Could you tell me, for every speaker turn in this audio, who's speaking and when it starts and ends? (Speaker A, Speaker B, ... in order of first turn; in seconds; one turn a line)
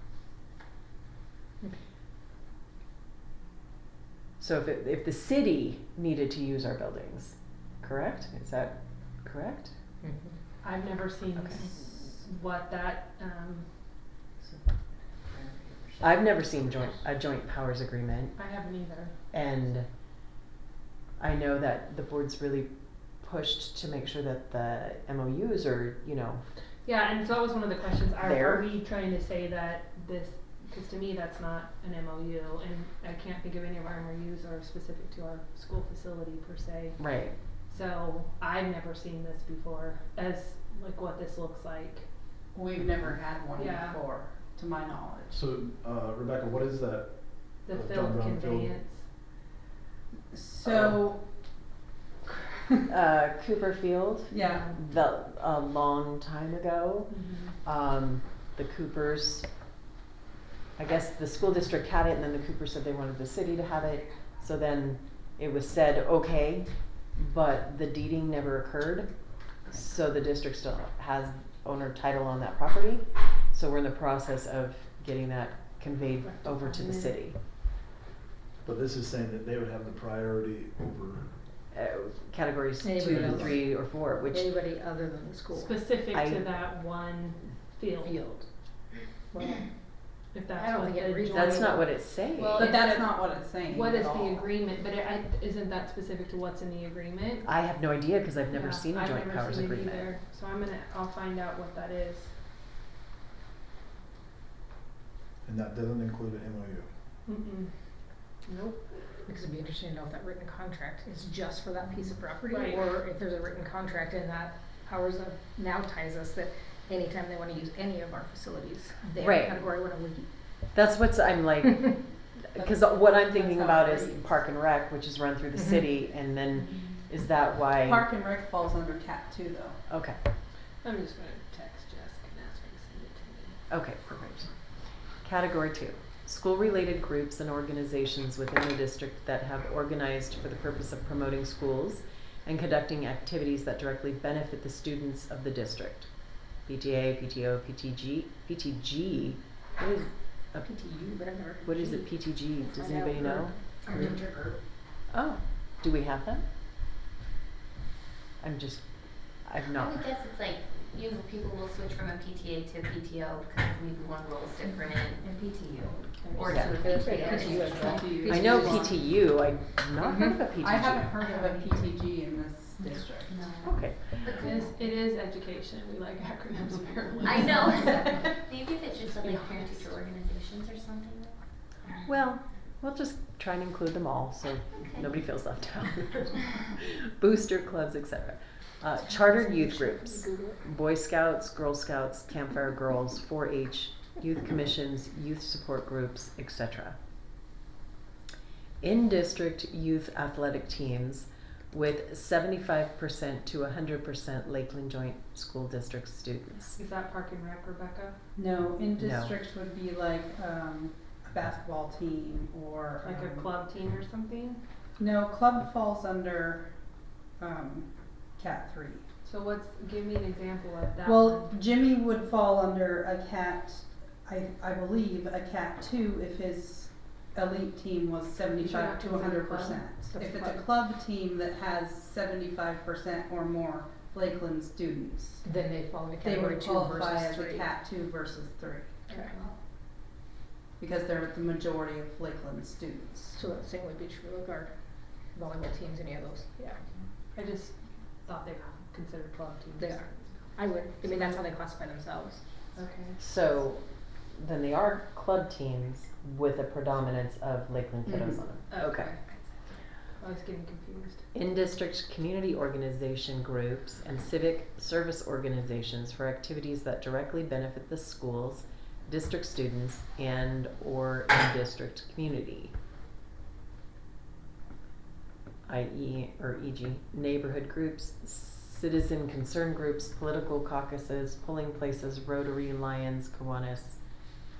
Speaker A: 4.4-9.7
Speaker B: 10.0-10.3
Speaker C: 10.6-13.7
Speaker A: 11.3-11.7
Speaker A: 16.0-18.4
Speaker C: 18.3-19.2
Speaker A: 19.3-19.9
Speaker A: 21.2-26.4
Speaker C: 26.8-42.1
Speaker A: 28.2-28.7
Speaker A: 37.0-37.4
Speaker D: 42.5-45.4
Speaker C: 43.5-44.0
Speaker E: 45.3-48.8
Speaker C: 47.6-49.1
Speaker D: 50.3-51.2
Speaker E: 50.6-51.1
Speaker A: 52.9-57.1
Speaker D: 54.3-54.7
Speaker C: 54.4-54.8
Speaker C: 57.1-57.5
Speaker A: 57.6-59.5
Speaker A: 60.8-69.1
Speaker A: 69.7-77.4
Speaker C: 76.2-77.2
Speaker E: 78.6-81.3
Speaker A: 81.7-84.5
Speaker B: 82.8-85.8
Speaker E: 83.0-83.6
Speaker C: 85.5-88.3
Speaker A: 86.1-86.5
Speaker B: 88.0-88.5
Speaker B: 89.3-91.9
Speaker C: 90.3-97.5
Speaker A: 91.3-92.7
Speaker D: 92.6-94.5
Speaker A: 97.4-100.1
Speaker C: 98.5-102.3
Speaker E: 105.4-106.9
Speaker C: 107.2-107.7
Speaker C: 108.4-108.8
Speaker B: 109.2-120.3
Speaker C: 112.5-112.8
Speaker A: 119.2-119.6
Speaker A: 120.7-128.1
Speaker D: 122.5-124.3
Speaker D: 127.8-129.8
Speaker A: 129.9-130.2
Speaker C: 130.8-133.6
Speaker A: 133.7-134.5
Speaker A: 135.2-150.7
Speaker B: 150.6-154.6
Speaker A: 151.6-154.2
Speaker A: 155.1-156.4
Speaker A: 158.4-158.8
Speaker A: 159.4-160.0
Speaker F: 159.7-168.3
Speaker B: 166.3-169.0
Speaker A: 166.4-166.8
Speaker D: 167.6-169.0
Speaker A: 168.2-171.2
Speaker B: 170.0-170.3
Speaker D: 170.6-173.4
Speaker F: 173.3-174.8
Speaker A: 173.6-174.4
Speaker C: 174.3-178.4
Speaker F: 177.2-181.3
Speaker C: 179.0-179.9
Speaker A: 182.0-197.0
Speaker B: 189.0-190.6
Speaker A: 198.8-206.8
Speaker C: 206.8-208.2
Speaker D: 208.3-213.5
Speaker A: 209.0-209.3
Speaker C: 213.0-214.6
Speaker D: 215.0-216.7
Speaker D: 217.4-219.0
Speaker C: 219.2-221.5
Speaker D: 221.0-235.4
Speaker C: 228.6-229.9
Speaker B: 230.1-230.6
Speaker B: 235.4-237.7
Speaker D: 236.2-238.9
Speaker B: 239.1-239.3
Speaker D: 240.8-243.4
Speaker B: 243.3-244.8
Speaker B: 245.3-246.8
Speaker C: 247.3-251.4
Speaker B: 249.8-252.4
Speaker C: 252.7-253.2
Speaker A: 253.2-259.1
Speaker D: 258.1-258.4
Speaker C: 258.7-259.4
Speaker C: 260.1-261.2
Speaker A: 261.3-272.7
Speaker A: 275.6-284.0